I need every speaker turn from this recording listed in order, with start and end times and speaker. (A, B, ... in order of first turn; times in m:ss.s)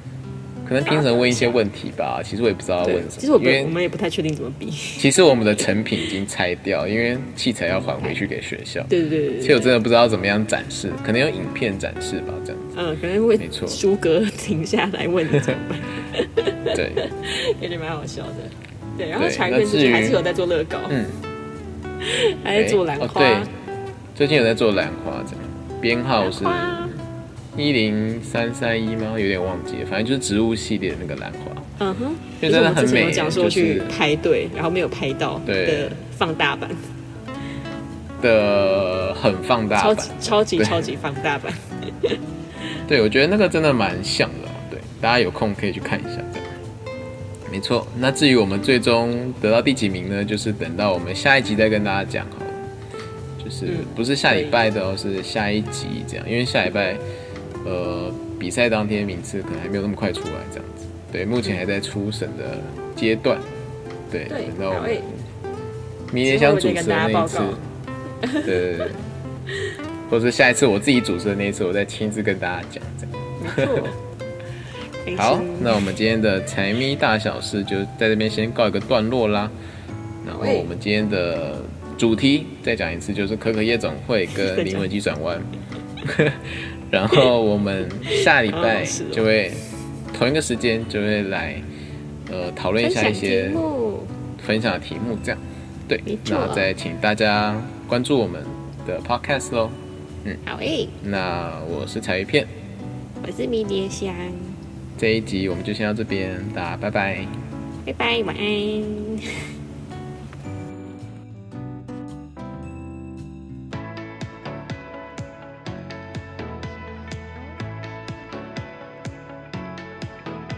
0:00.6-0:03.8 A
0:00.9-0:01.6 B
0:02.8-0:05.1 B
0:05.0-0:12.7 A
0:08.9-0:09.8 B
0:12.7-0:21.0 B
0:13.4-0:13.8 A
0:16.7-0:17.1 A
0:19.2-0:20.2 A
0:20.9-0:21.2 A
0:22.0-0:23.5 B
0:22.6-0:23.5 A
0:24.2-0:27.0 A
0:26.2-0:27.0 B
0:27.6-0:31.7 A
0:31.8-0:36.9 B
0:32.4-0:34.0 A
0:35.5-0:36.0 A
0:38.2-0:40.9 A
0:39.8-0:42.2 B
0:42.9-0:46.5 A
0:47.5-0:52.6 A
0:53.4-0:57.0 A
0:53.6-0:54.6 B
0:57.6-1:03.4 A
1:04.1-1:05.1 A
1:04.3-1:05.1 B
1:06.1-1:07.6 A
1:06.2-1:07.6 B
1:08.2-1:08.9 B
1:08.4-1:09.0 A
1:10.1-1:13.9 A
1:13.4-1:14.0 B
1:15.0-1:15.9 B
1:15.2-1:19.5 A
1:20.2-1:25.5 A
1:20.3-1:20.7 B
1:24.4-1:24.9 B
1:26.0-1:31.6 A
1:28.1-1:29.3 B
1:32.3-1:33.6 A
1:32.8-1:34.1 B
1:34.4-1:40.4 A
1:36.1-1:36.7 B
1:40.4-1:41.0 B
1:41.0-1:42.5 A
1:43.2-1:44.6 B
1:45.0-1:47.3 A
1:47.8-1:49.3 B